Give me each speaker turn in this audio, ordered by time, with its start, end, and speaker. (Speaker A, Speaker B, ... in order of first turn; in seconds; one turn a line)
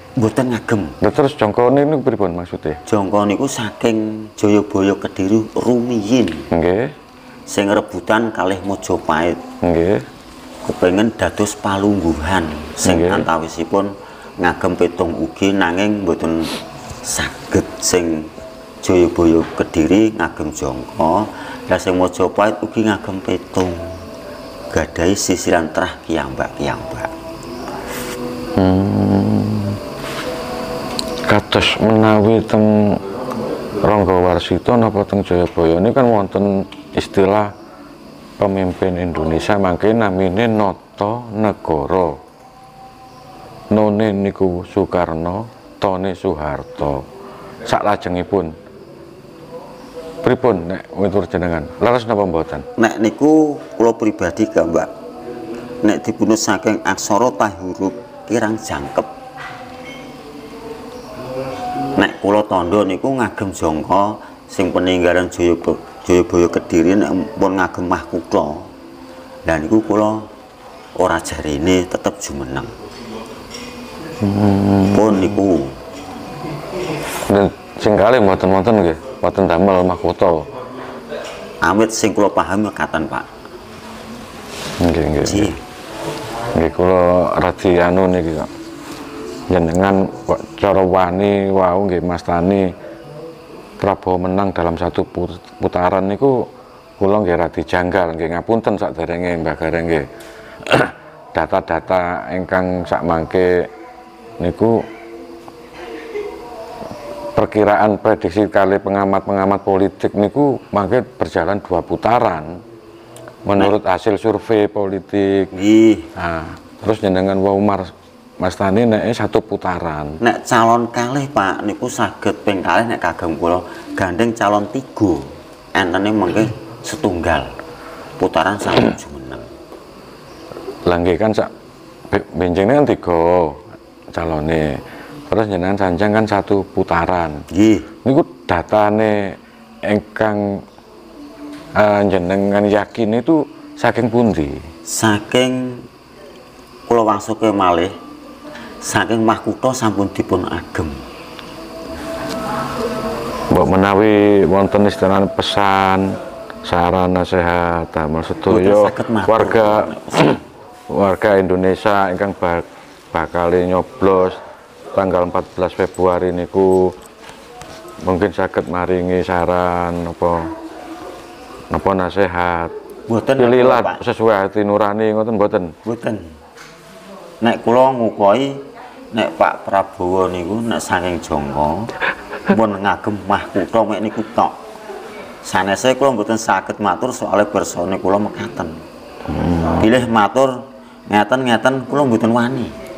Speaker A: 0.2-1.0
Speaker B: 1.0-2.8
Speaker A: 2.9-6.5
Speaker B: 6.5-6.9
Speaker A: 7.5-9.4
Speaker B: 9.6-10.0
Speaker A: 10.6-16.5
Speaker B: 12.8-13.3
Speaker A: 17.0-18.3
Speaker A: 18.8-23.9
Speaker A: 24.7-27.1
Speaker B: 28.6-29.8
Speaker B: 31.2-33.0
Speaker B: 33.8-37.5
Speaker B: 38.4-42.2
Speaker B: 43.7-47.0
Speaker B: 47.6-48.5
Speaker B: 50.2-52.6
Speaker A: 52.8-54.9
Speaker A: 55.8-59.1
Speaker A: 62.0-68.7
Speaker A: 69.5-70.2
Speaker A: 71.0-72.7
Speaker B: 74.2-75.4
Speaker A: 74.9-75.7
Speaker B: 77.3-80.5
Speaker A: 81.6-83.3
Speaker B: 84.8-85.5
Speaker A: 85.2-85.5
Speaker B: 86.5-88.5
Speaker B: 89.5-92.7
Speaker B: 93.8-96.4
Speaker B: 97.0-100.1
Speaker B: 100.7-103.7
Speaker B: 104.4-104.8
Speaker B: 107.3-112.6
Speaker B: 113.4-115.5
Speaker A: 115.5-116.1
Speaker B: 116.2-120.2
Speaker A: 120.2-127.5
Speaker A: 128.2-129.4
Speaker B: 130.8-131.5
Speaker B: 132.1-133.6
Speaker B: 134.1-137.4
Speaker A: 137.5-137.8
Speaker B: 138.0-140.4
Speaker B: 141.8-144.6
Speaker A: 144.9-145.8
Speaker A: 146.9-147.9
Speaker A: 148.8-151.0
Speaker B: 153.5-160.4
Speaker A: 158.4-160.3
Speaker B: 160.9-164.4
Speaker B: 164.9-166.9
Speaker B: 168.0-170.5
Speaker B: 171.7-172.7
Speaker A: 173.1-174.0
Speaker B: 173.4-175.7
Speaker A: 175.8-176.2
Speaker A: 177.4-181.9
Speaker A: 182.5-184.6
Speaker A: 185.4-188.8
Speaker B: 189.3-189.9
Speaker A: 189.8-192.7